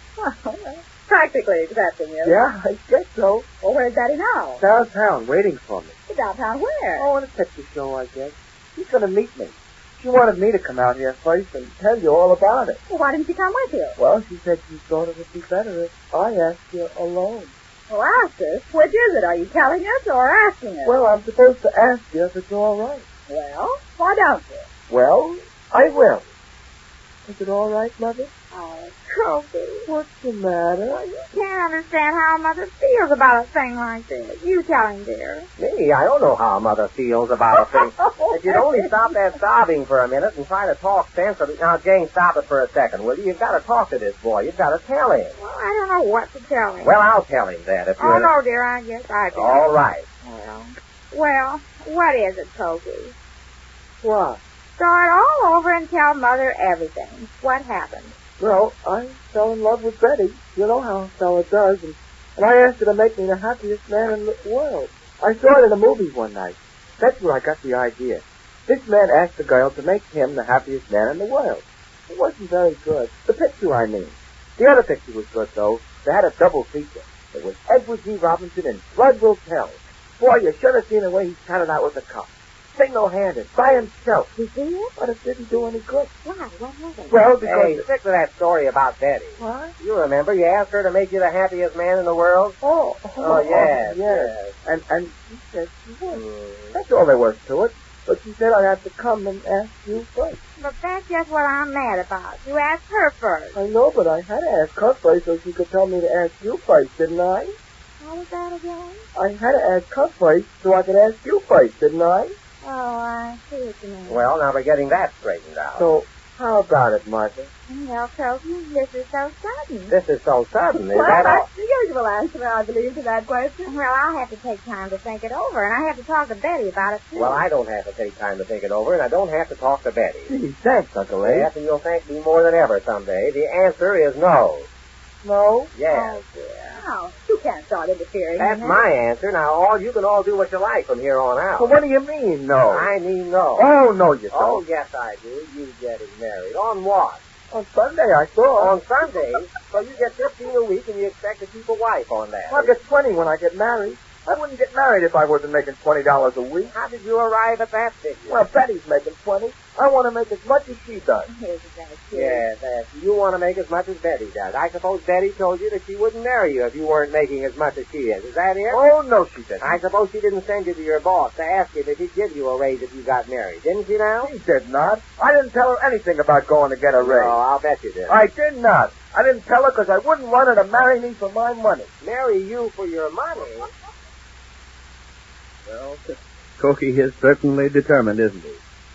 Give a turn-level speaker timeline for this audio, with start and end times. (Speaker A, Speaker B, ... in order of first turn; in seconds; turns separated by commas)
Speaker A: 0.2-2.4, Speaker B: 2.2-3.5, Speaker A: 3.6-4.6, Speaker B: 4.6-6.0, Speaker A: 6.1-7.1, Speaker B: 7.0-12.8, Speaker A: 12.9-14.0, Speaker B: 14.0-17.5, Speaker A: 17.9-21.0, Speaker B: 20.8-23.1, Speaker A: 23.3-24.7, Speaker B: 24.9-26.2, Speaker B: 27.3-28.3, Speaker C: 28.5-29.9, Speaker B: 29.9-31.3, Speaker C: 31.3-35.5, Speaker D: 35.6-45.4, Speaker C: 45.4-47.0, Speaker D: 46.8-48.3, Speaker C: 48.0-49.7, Speaker D: 49.3-50.1, Speaker C: 50.2-53.1, Speaker B: 54.0-54.4, Speaker C: 54.8-58.1, Speaker B: 58.4-84.3, Speaker C: 84.3-84.9, Speaker B: 85.0-86.1, Speaker C: 86.2-87.2, Speaker B: 87.1-87.9, Speaker D: 87.4-92.6, Speaker B: 89.4-89.7, Speaker B: 92.6-96.2, Speaker D: 93.2-94.5, Speaker D: 96.1-96.8, Speaker B: 96.7-100.4, Speaker C: 100.6-103.6, Speaker B: 103.5-107.5, Speaker C: 108.0-109.0, Speaker B: 109.1-112.3, Speaker C: 112.6-114.3, Speaker D: 114.1-115.9, Speaker B: 115.8-117.5, Speaker C: 117.7-120.0, Speaker D: 119.9-121.5, Speaker A: 120.7-123.7, Speaker C: 123.7-127.5, Speaker D: 127.2-130.3, Speaker B: 130.3-131.5, Speaker D: 131.2-134.7, Speaker B: 135.2-136.2, Speaker D: 135.7-136.2, Speaker C: 135.9-136.8, Speaker A: 136.7-138.8, Speaker D: 138.4-141.8, Speaker B: 141.6-142.9, Speaker D: 142.7-143.7, Speaker B: 143.6-144.6, Speaker D: 144.3-147.2, Speaker B: 147.5-148.8, Speaker D: 148.6-152.7, Speaker B: 152.5-156.7, Speaker D: 156.7-158.4, Speaker B: 158.3-161.3, Speaker C: 161.3-162.4, Speaker D: 162.1-168.8, Speaker B: 168.7-169.8, Speaker D: 169.6-174.3, Speaker B: 174.2-177.4, Speaker D: 177.0-178.2, Speaker B: 178.1-181.9, Speaker D: 182.0-183.7, Speaker E: 185.7-186.0, Speaker E: 186.6-188.6